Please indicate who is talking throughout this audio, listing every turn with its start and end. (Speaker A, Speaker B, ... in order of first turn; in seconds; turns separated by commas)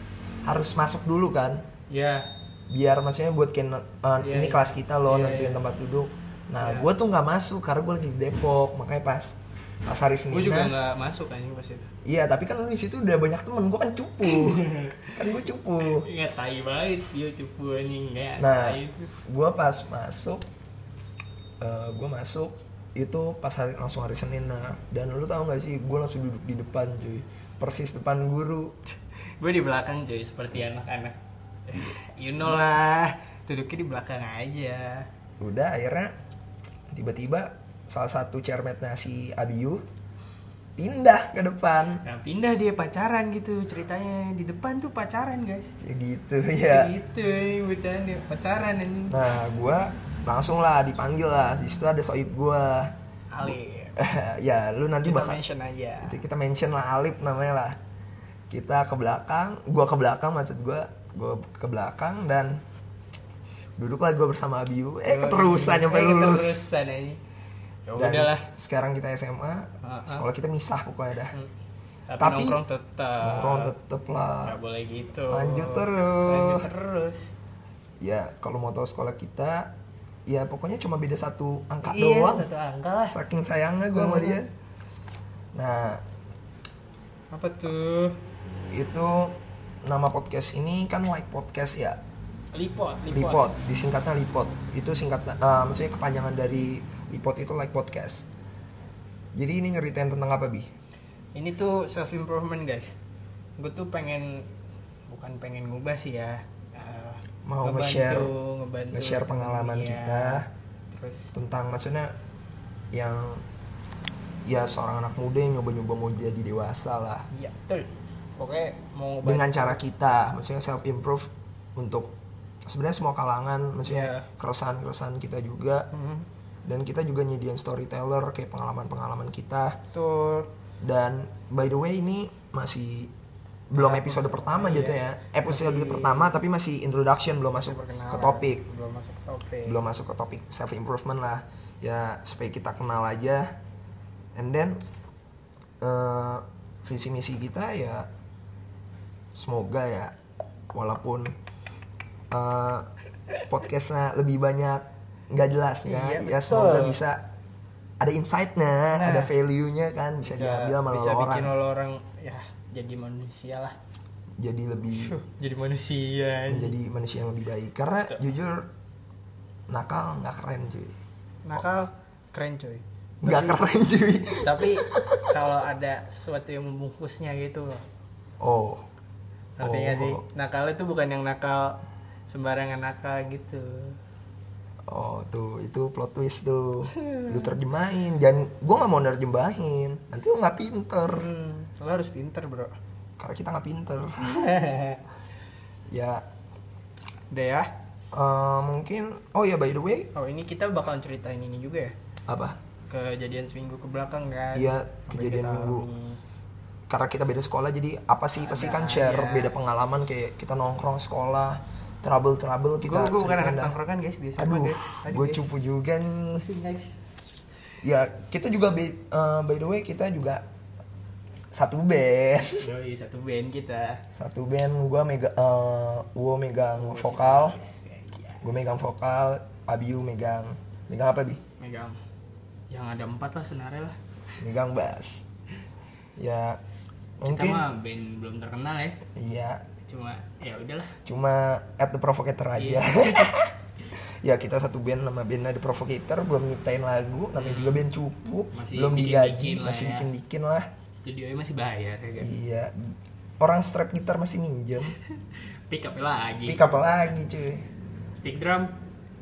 Speaker A: 0.5-1.6, Speaker B: 1.9-2.3, Speaker A: 2.7-10.7, Speaker B: 4.2-5.6, Speaker B: 6.6-6.9, Speaker B: 10.3-11.9, Speaker A: 12.0-16.1, Speaker B: 14.2-19.1, Speaker A: 18.4-20.4, Speaker A: 21.6-28.8, Speaker B: 29.4-35.1, Speaker A: 32.4-32.8, Speaker A: 35.4-36.1, Speaker A: 36.9-39.8, Speaker A: 40.8-42.0, Speaker B: 42.0-45.7, Speaker A: 45.8-46.9, Speaker B: 46.6-49.3, Speaker A: 49.1-52.9, Speaker B: 53.3-54.0, Speaker A: 53.5-55.4, Speaker B: 55.0-56.2, Speaker A: 56.0-57.8, Speaker A: 58.5-62.6, Speaker A: 63.8-66.6, Speaker B: 65.1-67.2, Speaker B: 67.9-68.5, Speaker A: 68.0-71.3, Speaker B: 69.8-70.2, Speaker B: 72.1-73.7, Speaker A: 72.2-72.6, Speaker A: 73.2-74.6, Speaker B: 74.4-77.3, Speaker A: 75.3-76.7, Speaker A: 78.0-79.7, Speaker A: 80.3-82.5, Speaker B: 81.8-83.2, Speaker A: 83.1-84.5, Speaker B: 83.9-84.4, Speaker A: 85.5-86.0, Speaker B: 87.3-88.2, Speaker A: 88.7-92.0, Speaker B: 92.5-93.5, Speaker A: 93.1-98.3, Speaker A: 99.3-100.7, Speaker B: 101.3-102.9, Speaker B: 103.6-104.5, Speaker B: 105.1-111.3, Speaker A: 107.5-108.3, Speaker A: 108.9-110.5, Speaker A: 111.3-112.1, Speaker A: 112.9-113.4, Speaker A: 114.5-117.3, Speaker B: 117.3-119.8, Speaker A: 119.2-122.1, Speaker A: 122.7-125.9, Speaker B: 123.8-124.3, Speaker B: 125.9-126.3, Speaker A: 126.7-129.8, Speaker B: 129.9-130.5, Speaker A: 130.8-133.1, Speaker A: 133.7-138.6, Speaker B: 133.7-136.3, Speaker B: 137.5-139.8, Speaker A: 139.7-143.5, Speaker A: 144.3-144.8, Speaker A: 145.8-148.1, Speaker A: 149.3-150.2, Speaker A: 150.7-151.3, Speaker A: 152.3-152.9, Speaker A: 153.5-157.2, Speaker B: 155.8-157.0, Speaker A: 158.0-161.5, Speaker B: 158.9-159.3, Speaker B: 160.2-163.8, Speaker A: 164.4-165.2, Speaker B: 164.9-166.7, Speaker A: 166.5-168.7, Speaker A: 169.7-171.0, Speaker B: 171.4-177.8, Speaker A: 173.2-175.2, Speaker A: 178.4-178.8, Speaker B: 179.6-184.0, Speaker A: 179.6-180.2, Speaker A: 184.9-191.3, Speaker B: 187.0-187.5, Speaker B: 191.1-192.8, Speaker A: 193.2-194.5, Speaker B: 194.2-195.0, Speaker A: 195.9-196.2, Speaker B: 197.3-197.7, Speaker A: 198.1-200.1, Speaker B: 200.1-201.9, Speaker A: 202.3-202.6, Speaker B: 202.9-206.2, Speaker A: 204.5-205.9, Speaker A: 206.9-213.8, Speaker B: 208.4-209.5, Speaker B: 212.8-215.5, Speaker A: 214.4-216.4, Speaker B: 216.3-217.0, Speaker A: 217.8-220.4, Speaker A: 221.5-222.8, Speaker B: 222.6-224.0, Speaker A: 224.2-227.6, Speaker B: 226.7-228.4, Speaker A: 228.4-231.4, Speaker B: 231.6-232.0, Speaker B: 232.7-234.0, Speaker A: 234.4-235.2, Speaker A: 236.2-236.6, Speaker A: 237.2-237.7, Speaker B: 237.2-239.0, Speaker A: 239.2-239.6, Speaker B: 239.8-241.0, Speaker A: 241.1-250.7, Speaker B: 242.6-243.4, Speaker B: 247.3-247.8, Speaker B: 248.5-250.1, Speaker B: 250.9-252.3, Speaker A: 252.2-255.0, Speaker B: 254.9-255.2, Speaker B: 255.7-256.7, Speaker A: 256.4-257.7, Speaker B: 258.1-258.8